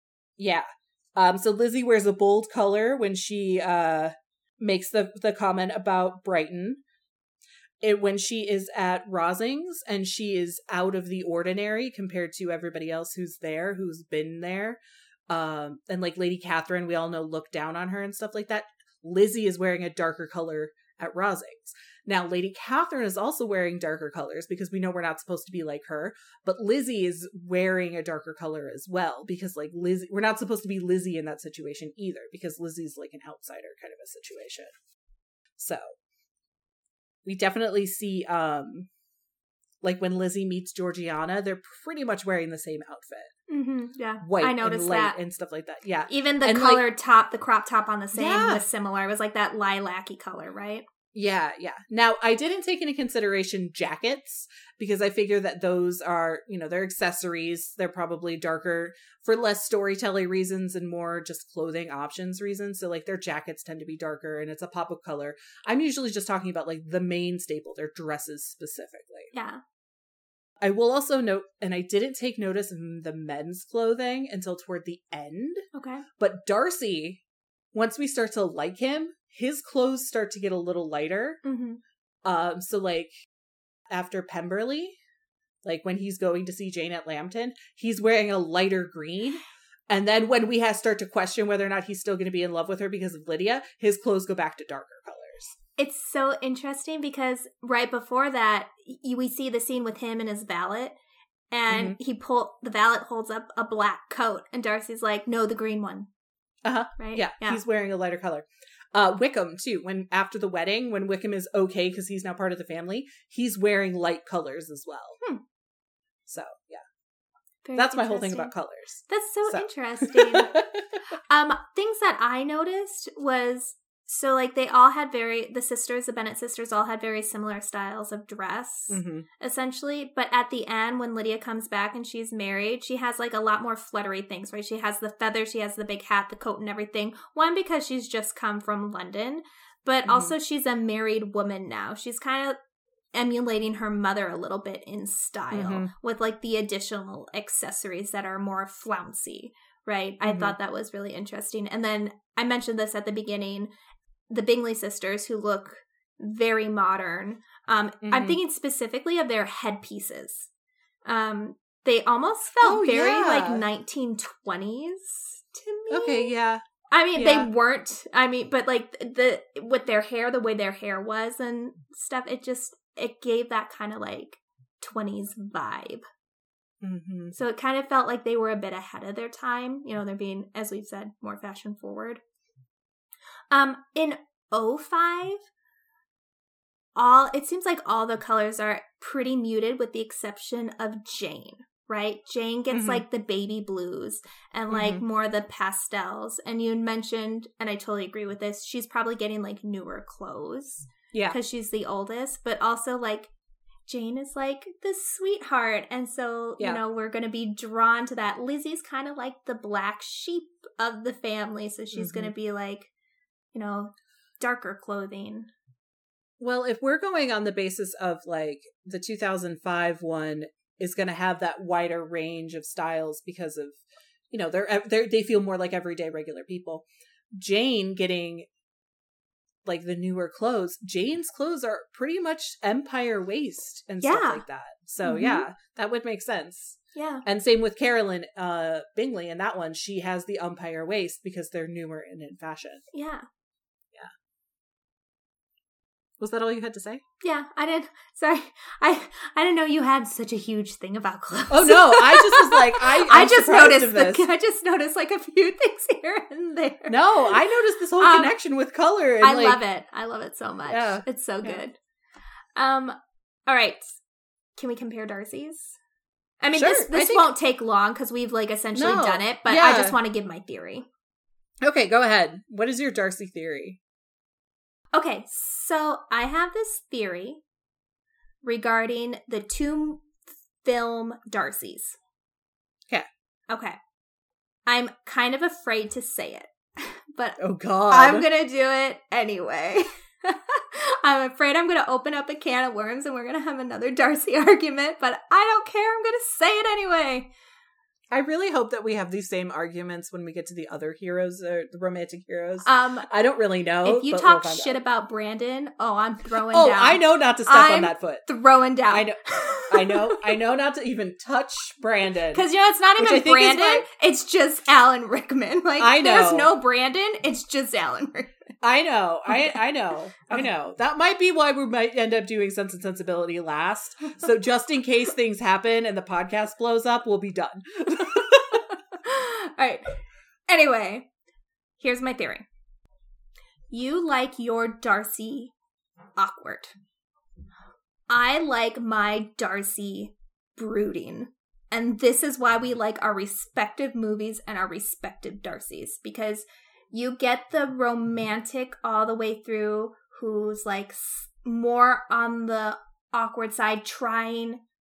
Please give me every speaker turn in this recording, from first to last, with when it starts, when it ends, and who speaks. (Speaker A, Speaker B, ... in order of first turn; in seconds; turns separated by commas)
Speaker A: 0.4-6.8, Speaker A: 7.8-34.7, Speaker A: 35.6-36.0, Speaker A: 37.2-38.9, Speaker A: 39.8-43.3, Speaker B: 43.5-45.2, Speaker A: 44.2-46.8, Speaker B: 46.1-50.9, Speaker A: 48.1-48.6, Speaker A: 51.1-69.3, Speaker B: 69.3-69.6, Speaker A: 70.6-75.7, Speaker B: 75.7-76.0, Speaker A: 76.2-77.2, Speaker A: 77.7-81.4, Speaker B: 81.4-81.8, Speaker A: 82.2-83.1, Speaker A: 83.9-85.0, Speaker A: 85.7-95.5, Speaker B: 95.8-101.0, Speaker B: 101.5-106.1, Speaker A: 101.7-102.0, Speaker A: 106.6-115.2, Speaker B: 107.0-107.6, Speaker A: 116.3-116.8, Speaker B: 117.7-118.5, Speaker A: 117.8-120.9, Speaker B: 119.1-120.5, Speaker B: 121.3-142.6, Speaker A: 128.9-129.3, Speaker A: 140.1-140.3, Speaker B: 143.1-153.7, Speaker A: 145.5-145.9, Speaker A: 150.2-150.6, Speaker B: 154.3-160.5, Speaker A: 158.0-158.4, Speaker B: 161.1-166.3, Speaker A: 162.6-163.7, Speaker A: 165.9-166.6, Speaker B: 166.9-176.0, Speaker A: 167.2-167.5, Speaker A: 176.8-177.3, Speaker B: 177.3-182.2, Speaker B: 183.5-185.5, Speaker B: 187.0-203.3, Speaker A: 192.7-193.0, Speaker A: 194.7-195.0, Speaker A: 201.1-201.4, Speaker B: 203.9-212.9, Speaker A: 211.9-212.3, Speaker B: 213.5-215.5, Speaker A: 216.4-223.8, Speaker A: 224.3-228.5, Speaker A: 229.7-242.8, Speaker B: 234.0-234.4, Speaker B: 235.0-235.4, Speaker B: 236.9-237.2, Speaker B: 242.9-243.3, Speaker A: 246.2-247.0, Speaker B: 247.2-257.4, Speaker A: 251.5-254.3, Speaker A: 256.9-259.6, Speaker B: 258.0-258.4, Speaker B: 259.2-261.8, Speaker A: 260.7-261.6, Speaker B: 262.6-264.0, Speaker B: 264.6-265.8, Speaker B: 266.4-270.9, Speaker A: 266.6-267.3, Speaker A: 268.8-270.0, Speaker A: 271.6-273.8, Speaker B: 274.9-277.4, Speaker B: 278.4-280.1, Speaker B: 280.6-282.0, Speaker B: 283.5-283.8, Speaker B: 284.7-297.3, Speaker A: 287.4-288.3, Speaker A: 298.1-304.8, Speaker B: 302.6-303.1, Speaker B: 303.8-310.4, Speaker A: 306.5-308.3, Speaker A: 308.9-312.4, Speaker B: 312.3-318.4, Speaker A: 313.0-313.9, Speaker A: 315.8-316.5, Speaker A: 318.6-328.7, Speaker B: 319.3-319.6, Speaker B: 328.0-331.1, Speaker B: 331.8-332.5, Speaker B: 333.7-335.5, Speaker B: 336.2-336.7, Speaker B: 338.1-354.6